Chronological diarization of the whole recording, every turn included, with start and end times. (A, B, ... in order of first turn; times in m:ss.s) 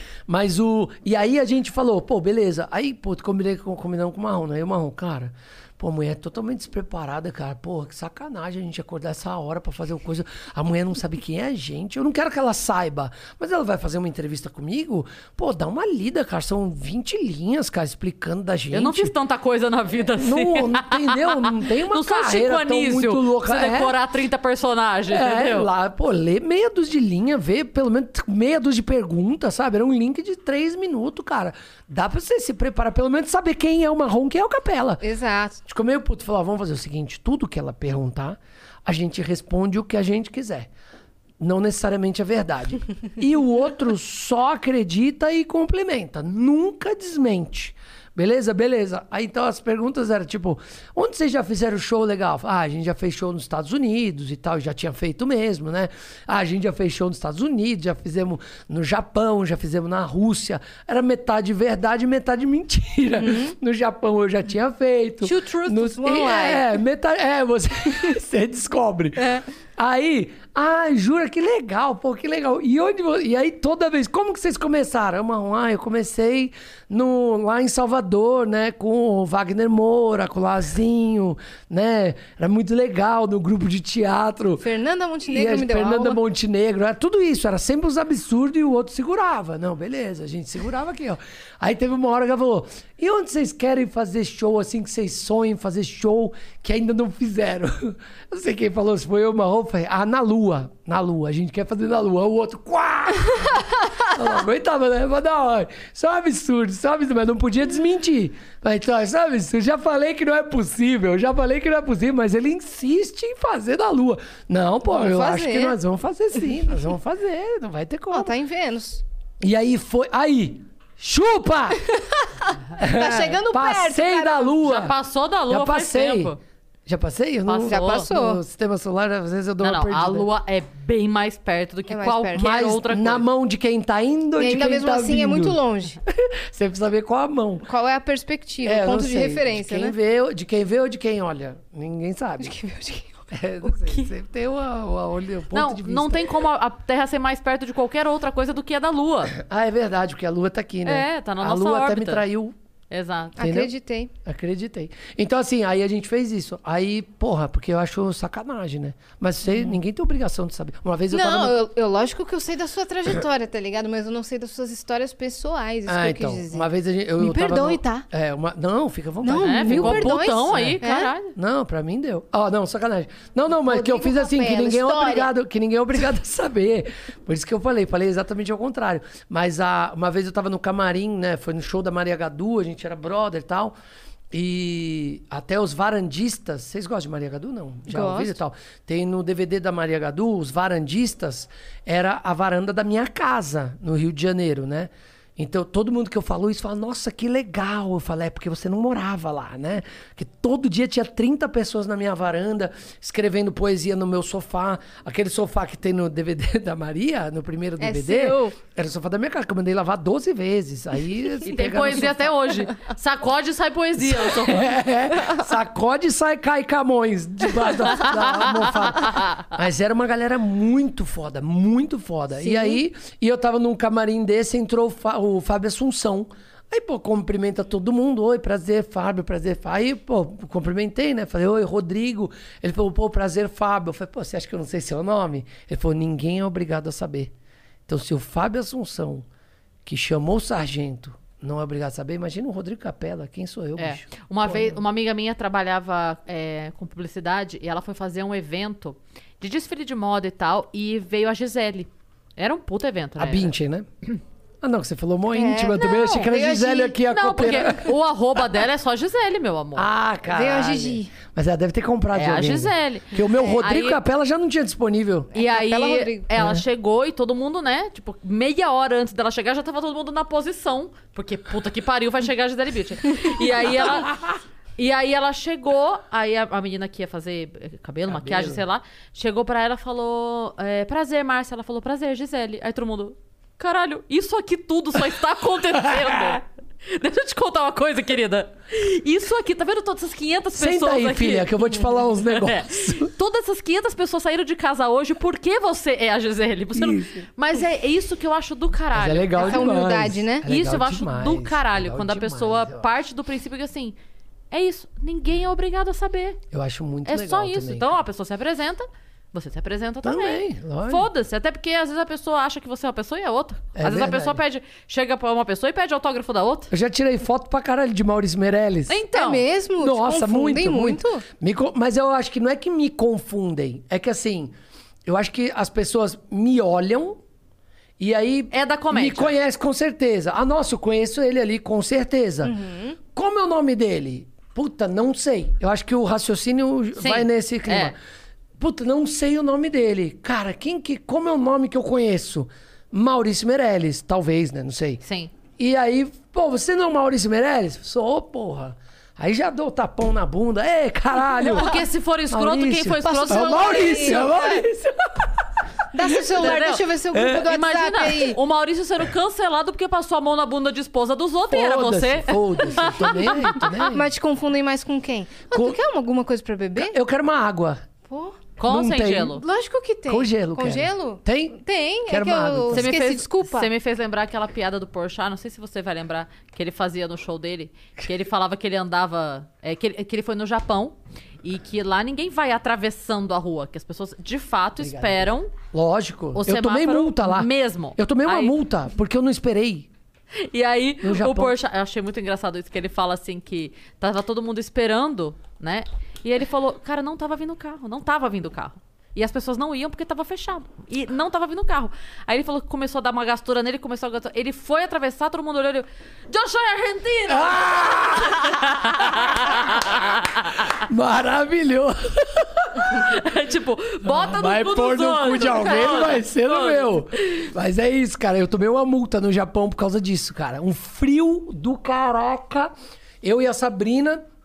0:00.3-0:19.1 A
0:18.7-0:25.7 B
0:20.1-0:24.0 A
0:25.1-0:35.0 A
0:35.0-0:35.6 C
0:35.7-0:40.7 A
0:41.4-1:24.6 A
1:03.2-1:03.5 C
1:05.2-1:06.7 C
1:24.6-1:26.2 C
1:25.3-1:58.3 A
1:54.9-1:55.8 C
1:58.1-1:59.0 C
1:59.4-2:01.8 A
2:02.4-2:04.6 C
2:02.8-2:04.9 A
2:04.6-2:06.4 B
2:05.5-2:06.3 A
2:06.9-2:10.3 A
2:07.4-2:08.1 B
2:07.6-2:08.4 C
2:09.6-2:13.3 B
2:11.9-2:12.5 C
2:12.4-2:17.7 A
2:14.4-2:16.0 C
2:17.6-2:19.9 C
2:18.6-2:22.6 A
2:22.4-2:23.3 C
2:23.3-2:26.4 A
2:25.5-2:29.4 B
2:29.3-2:32.6 A
2:30.8-2:32.3 B
2:32.9-2:33.4 B
2:33.4-2:33.7 A
2:33.4-2:34.1 C
2:34.2-2:41.6 A
2:41.1-2:48.0 C
2:45.9-2:50.8 A
2:49.2-2:51.1 C
2:49.4-2:51.3 B
2:51.4-3:03.7 A
2:53.6-2:55.3 C
3:04.3-3:32.3 A
3:07.9-3:08.4 C
3:27.8-3:28.6 C
3:31.4-3:34.7 B
3:34.0-3:57.3 A
3:42.4-3:42.8 C
3:57.9-3:59.3 A
3:59.8-4:04.8 A
4:03.8-4:13.5 B
4:13.2-4:13.9 A
4:14.6-4:17.9 A
4:15.3-4:17.0 C
4:17.1-4:19.9 B
4:19.7-4:25.3 A
4:20.3-4:21.1 C
4:22.1-4:24.0 B
4:25.3-4:26.3 C
4:25.4-4:34.2 B
4:26.4-4:26.6 A
4:34.8-4:59.7 B
4:38.1-4:38.6 A
4:45.8-4:46.4 A
4:50.5-4:53.1 A
4:56.7-4:57.3 A
4:58.9-5:02.9 A
4:59.4-5:00.4 C
5:00.4-5:04.0 B
5:04.5-5:06.4 B
5:06.5-5:08.0 A
5:07.1-5:16.7 B
5:10.0-5:11.1 A
5:13.7-5:14.4 A
5:16.7-5:19.0 A
5:18.9-5:19.4 B
5:19.1-5:21.2 C
5:19.8-5:24.5 A
5:25.1-5:27.2 A
5:28.0-5:32.6 A
5:28.5-5:29.4 B
5:32.4-5:33.0 C
5:33.1-5:38.0 A
5:37.0-5:37.9 B
5:38.6-5:45.0 A
5:45.0-5:45.3 B
5:45.6-5:55.4 A
5:51.5-5:54.3 B
5:53.0-5:54.6 C
5:55.9-5:58.4 C
5:56.3-6:03.9 B
5:57.1-5:57.5 A
6:01.5-6:04.1 A
6:03.6-6:07.0 C
6:05.5-6:05.8 A
6:06.7-6:07.8 A
6:08.1-6:08.4 C
6:08.6-6:09.4 B
6:08.6-6:09.4 A
6:09.4-6:13.7 C
6:10.1-6:12.9 A
6:12.7-6:25.5 B
6:24.8-6:29.9 A
6:26.4-6:28.6 B
6:30.4-6:50.6 B
6:31.0-6:31.6 A
6:47.3-6:50.0 A
6:50.7-6:53.1 A
6:52.9-6:57.5 B
6:54.0-7:04.2 A